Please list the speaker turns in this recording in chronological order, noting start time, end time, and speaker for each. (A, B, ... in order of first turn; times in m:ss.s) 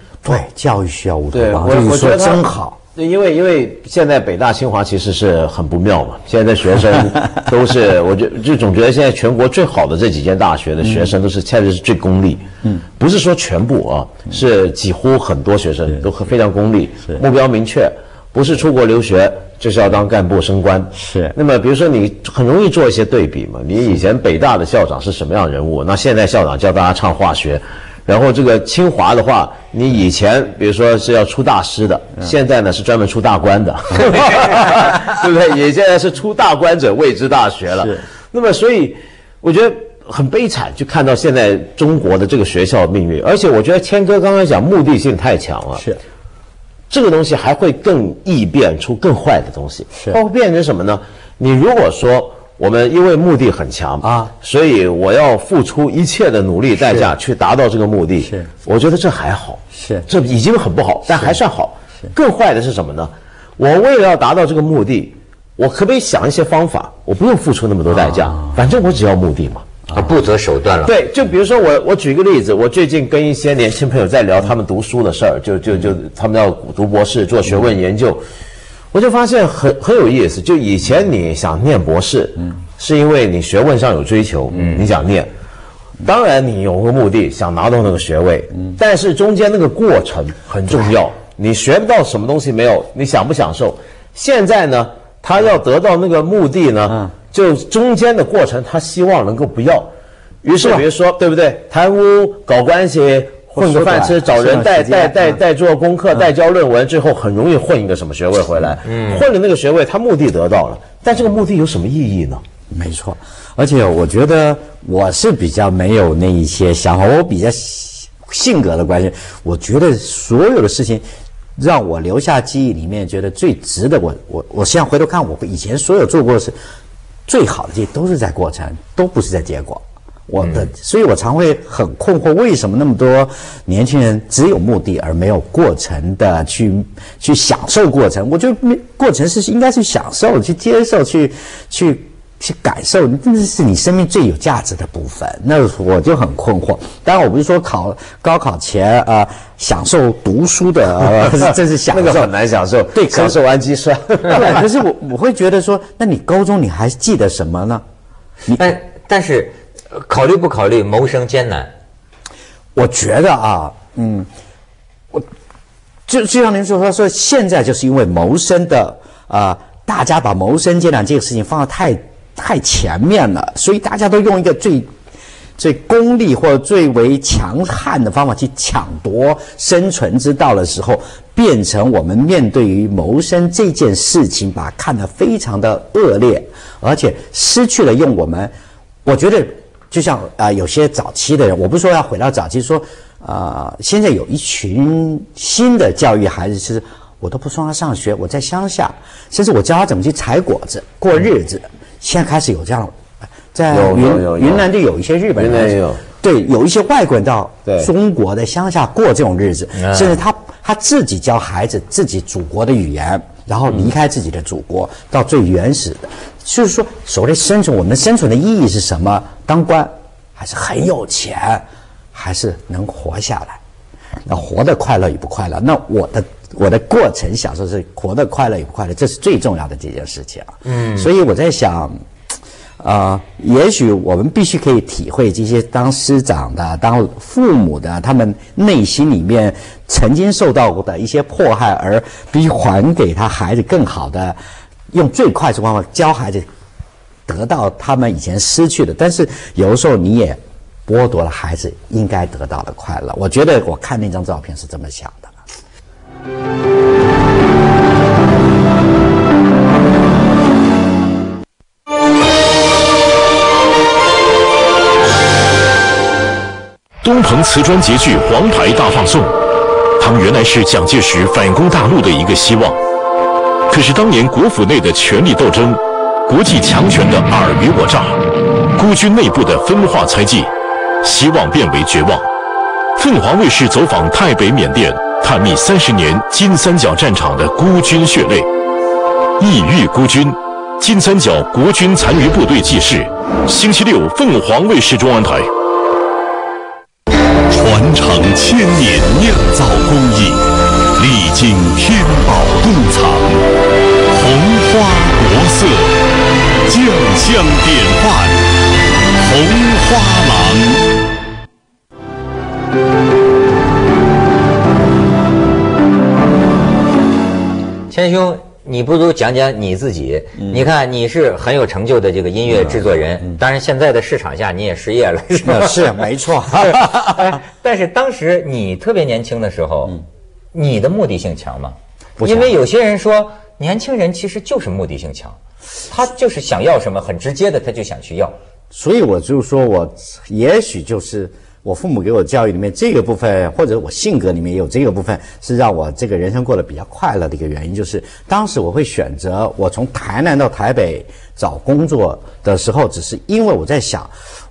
0:00.2-0:02.8 A
0:01.3-0:45.8 B
0:10.8-0:11.1 A
0:21.0-0:21.4 A
0:46.9-1:09.8 B
0:54.0-0:54.3 A
0:56.8-0:57.1 A
0:59.7-1:00.1 A
1:09.9-1:10.9 C
1:10.8-1:18.2 B
1:18.9-1:25.3 B
1:26.0-1:39.9 B
1:40.4-1:52.4 B
1:43.6-1:45.4 A
1:48.9-1:49.2 C
1:52.7-2:01.0 A
2:01.6-2:06.6 A
2:07.3-2:32.3 A
2:10.4-2:10.7 C
2:31.9-2:34.6 B
2:32.9-2:33.4 A
2:34.2-2:37.8 A
2:38.5-2:41.7 C
2:42.8-2:44.3 A
2:46.1-2:54.9 A
2:55.6-3:08.5 A
3:09.0-3:23.0 A
3:23.5-3:43.6 A
3:23.7-3:24.7 B
3:25.4-3:26.0 B
3:29.8-3:30.2 C
3:44.3-3:51.9 A
3:50.6-3:51.1 C
3:52.8-4:04.4 A
4:04.9-4:06.5 A
4:07.3-4:15.4 A
4:27.0-4:29.4 D
4:30.0-4:32.8 D
4:33.7-4:38.2 D
4:38.8-4:40.5 D
4:41.0-4:42.2 D
4:43.0-4:48.5 D
4:49.4-4:55.5 D
4:57.6-5:00.3 A
5:01.0-5:03.3 A
5:02.3-5:02.8 D
5:04.2-5:05.5 A
5:06.7-5:07.4 A
5:07.4-5:07.9 D
5:09.4-5:10.6 A
5:17.9-5:26.0 C
5:25.4-5:27.3 A
5:26.6-5:30.0 C
5:30.5-5:38.3 C
5:32.2-5:32.6 A
5:38.7-5:54.1 A